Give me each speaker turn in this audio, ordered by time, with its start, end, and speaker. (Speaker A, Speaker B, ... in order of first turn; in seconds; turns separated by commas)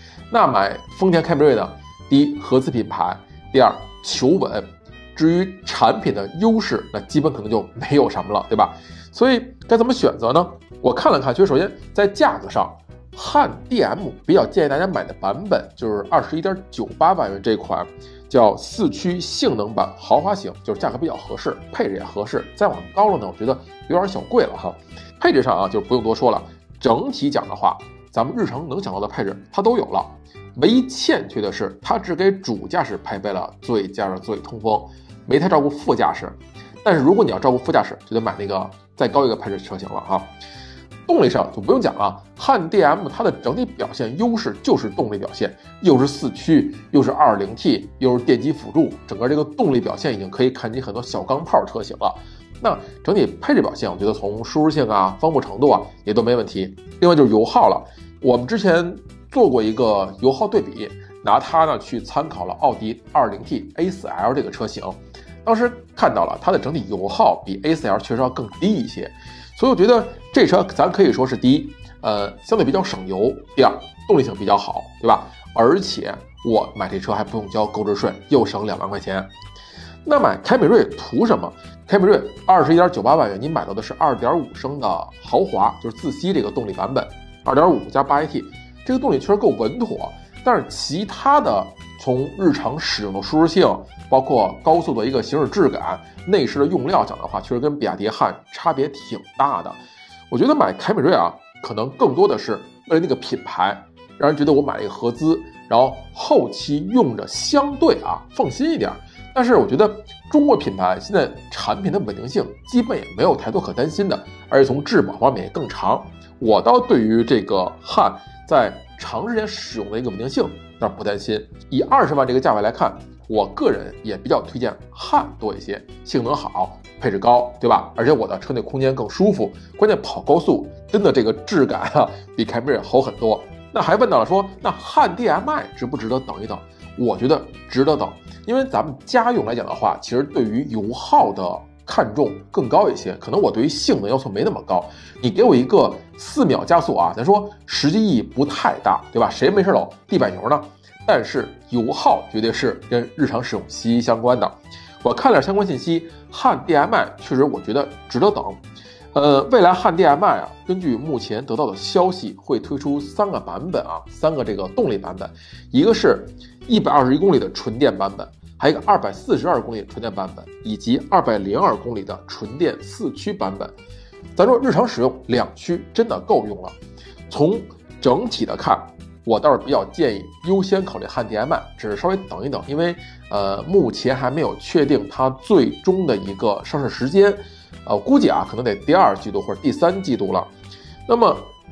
Speaker A: 0.3-40.3, Speaker A: 41.1-79.3, Speaker A: 80.0-99.8, Speaker A: 100.3-173.7, Speaker A: 174.3-176.8, Speaker A: 177.3-190.5, Speaker A: 191.1-191.5